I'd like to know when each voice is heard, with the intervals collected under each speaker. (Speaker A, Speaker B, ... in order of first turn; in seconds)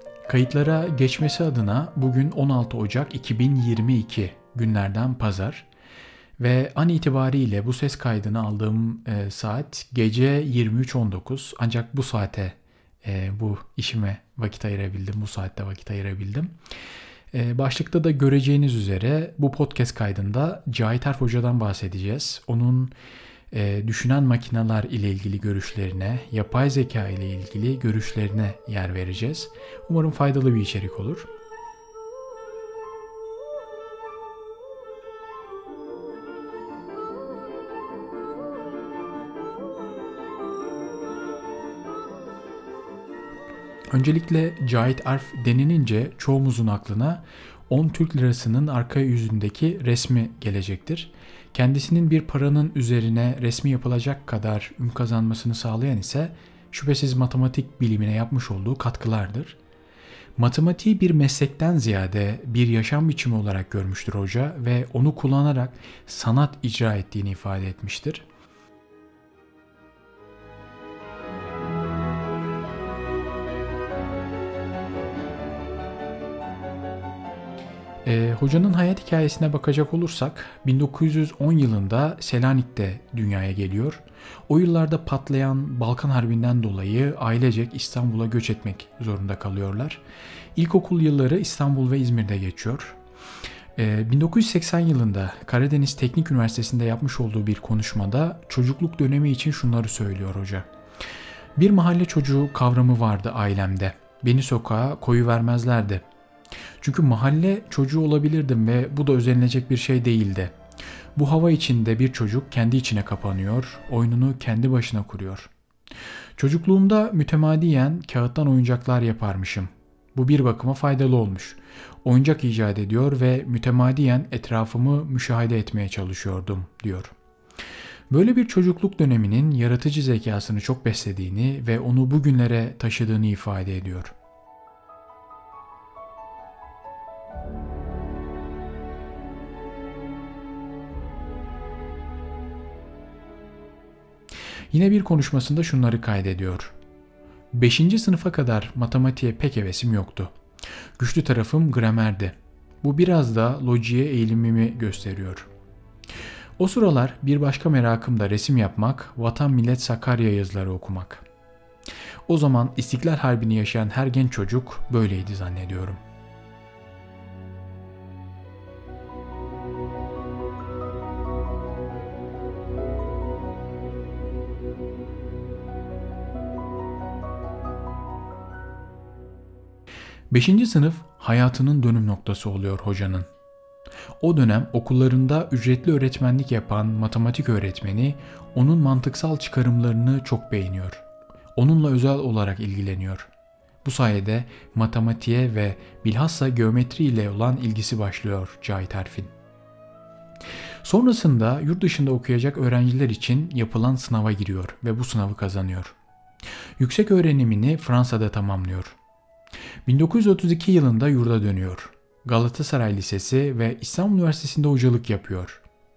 Speaker A: 0.2-5.7, 6.4-16.5, 17.3-22.9, 23.5-31.3, 43.9-59.6, 60.4-68.2, 78.0-90.0, 90.5-93.0, 93.8-100.7, 101.5-106.0, 106.8-110.5, 111.2-115.5, 116.4-127.1, 128.1-134.1, 144.7-146.7, 147.5-150.3, 151.0-155.5, 156.6-161.2, 162.3-166.0, 180.3-183.3, 184.2-191.0, 191.5-193.3, 193.8-199.3, 200.8-206.0, 206.8-209.0, 209.8-215.6